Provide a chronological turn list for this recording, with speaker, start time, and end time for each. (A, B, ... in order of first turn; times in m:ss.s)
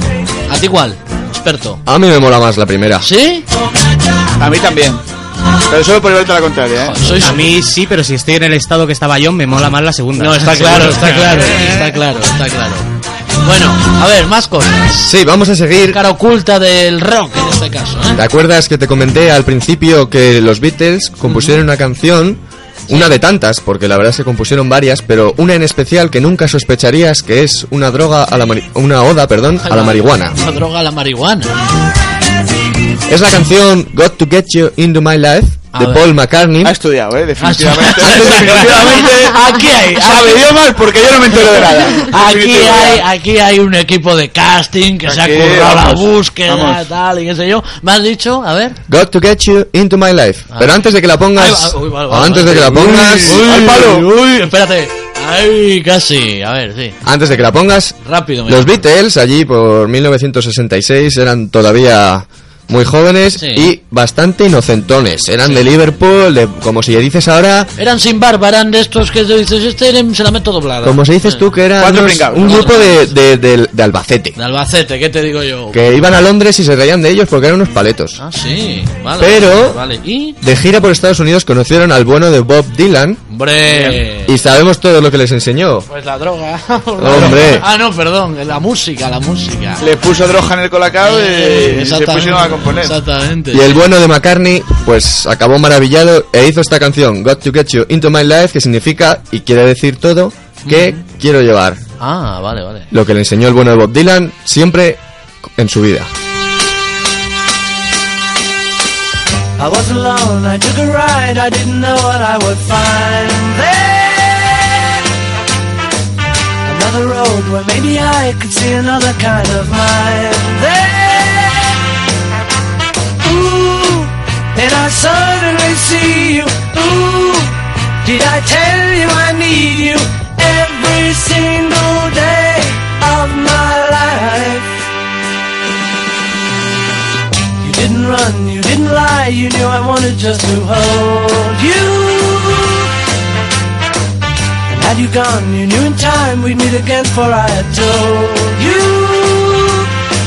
0:00.5-0:01.8 A
0:01.8-0:03.1 B
0:03.0-0:03.4 A
0:04.4-0:05.0 C
0:05.7-0:07.1 C
0:06.8-0:07.5 A
0:07.2-0:11.9 D
0:10.2-0:12.9 A
0:13.4-0:15.1 A
0:15.0-0:16.0 B
0:15.9-0:18.2 A
0:18.1-0:30.4 B
0:21.3-0:21.6 A
0:29.6-0:31.6 A
0:33.1-0:36.7 B
0:35.7-0:36.0 A
0:36.6-0:43.0 C
0:37.4-0:40.5 A
0:41.5-0:48.8 A
0:45.0-0:46.8 C
0:48.9-0:53.8 B
0:50.5-0:50.8 A
0:51.4-0:57.0 A
0:52.7-0:54.0 C
0:57.0-0:58.0 B
0:58.0-0:58.8 A
0:58.5-1:07.7 B
1:03.4-1:03.7 A
1:07.8-1:11.4 A
1:10.8-1:14.4 B
1:11.8-1:13.0 C
1:12.4-1:13.0 A
1:14.4-1:16.1 A
1:15.7-1:18.2 B
1:18.2-1:20.4 A
1:19.2-1:19.8 B
1:20.4-1:23.2 B
1:23.3-1:24.3 A
1:24.2-1:25.9 B
1:25.9-1:29.8 A
1:27.0-1:27.6 B
1:29.8-1:33.0 C
1:31.0-1:33.8 A
1:33.5-1:41.8 B
1:40.6-1:41.0 A
1:42.0-1:42.9 A
1:42.9-1:45.0 B
1:45.6-1:46.1 B
1:49.6-1:54.8 E
1:56.6-2:01.7 E
2:03.2-2:14.7 E
2:17.6-2:22.9 E
2:24.7-2:29.9 E